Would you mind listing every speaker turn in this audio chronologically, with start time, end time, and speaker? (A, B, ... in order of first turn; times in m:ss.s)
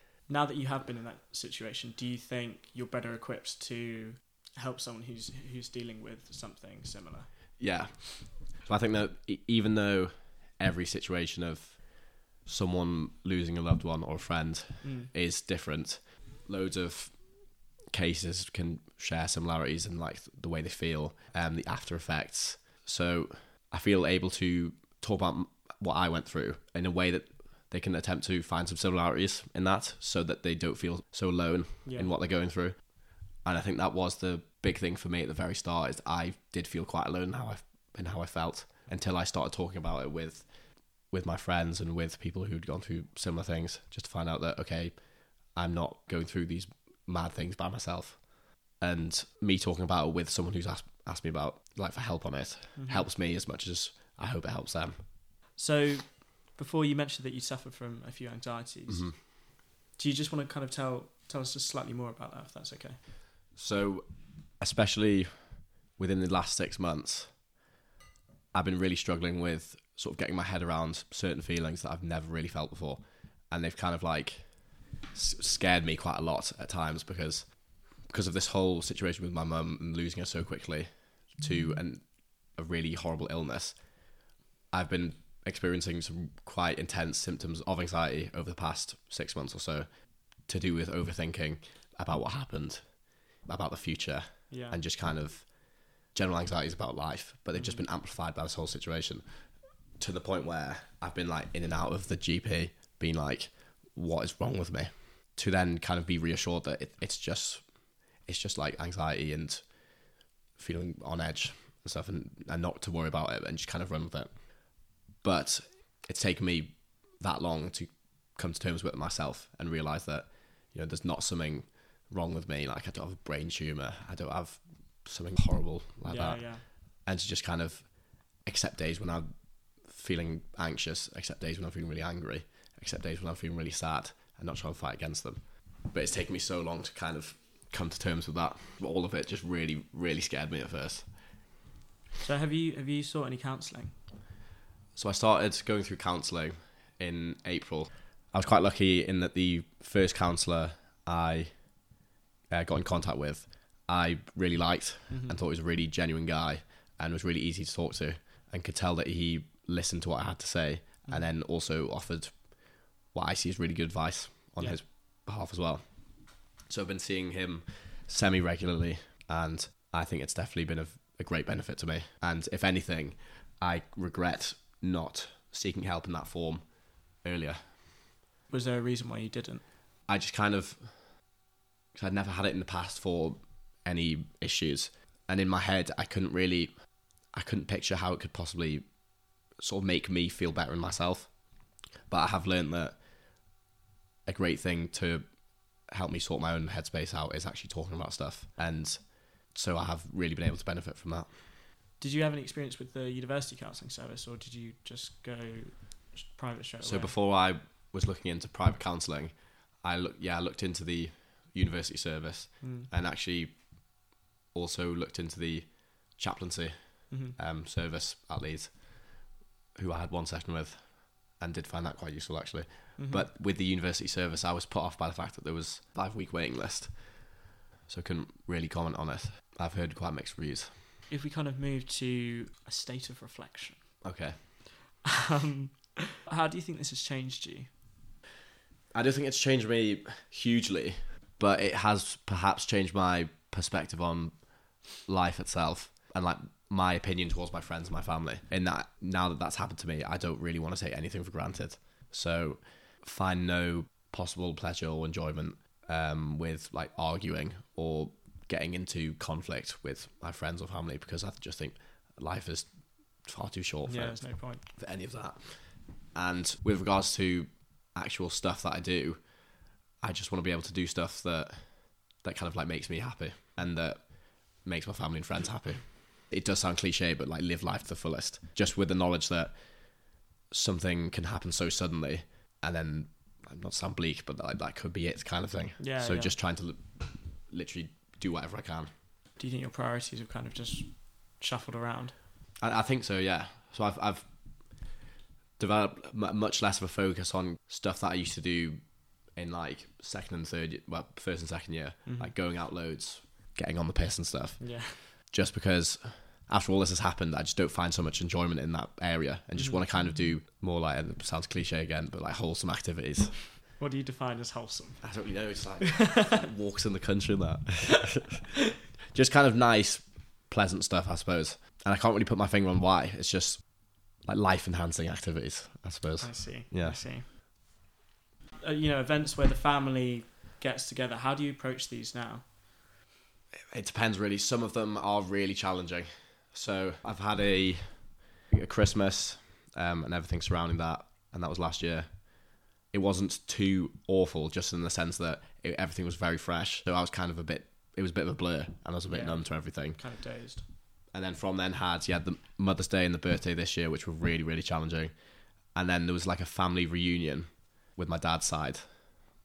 0:00.3-0:07.6 A
0:07.6-0:55.1 B
0:14.8-0:15.1 A
0:31.8-0:32.1 A
0:52.8-0:53.1 A
0:55.6-1:03.0 A
0:58.9-0:59.2 B
1:03.5-1:07.4 B
1:08.5-1:24.2 B
1:24.7-2:21.2 B
1:34.5-1:34.8 A
1:37.5-1:37.8 A
2:06.0-2:06.7 A
2:22.2-2:24.0 A
2:24.9-2:31.9 B
2:32.5-2:57.8 B
2:35.1-2:35.4 A
2:41.0-2:41.3 A
2:44.6-2:44.8 A
2:58.5-2:59.7 A
3:00.1-3:01.3 B
3:01.9-3:13.1 B
3:14.2-3:21.5 B
3:22.0-3:27.2 A
3:26.8-3:50.9 B
3:32.6-3:32.9 A
3:37.1-3:37.4 A
3:43.0-3:43.3 A
3:51.1-3:54.4 A
3:54.0-3:54.5 B
3:55.0-3:57.7 A
3:58.9-4:48.9 B
4:23.8-4:24.6 A
4:45.8-4:46.4 A
4:49.4-4:52.2 A
4:52.6-4:54.9 B
4:55.6-5:13.5 B
5:02.0-5:02.4 A
5:04.6-5:05.0 A
5:09.6-5:09.9 A
5:13.8-5:16.4 A
5:15.0-5:18.4 B
5:19.1-5:27.0 B
5:26.2-5:27.3 A
5:28.6-5:32.5 A
5:33.7-5:50.2 B
5:49.1-5:50.7 A
5:51.1-5:59.3 B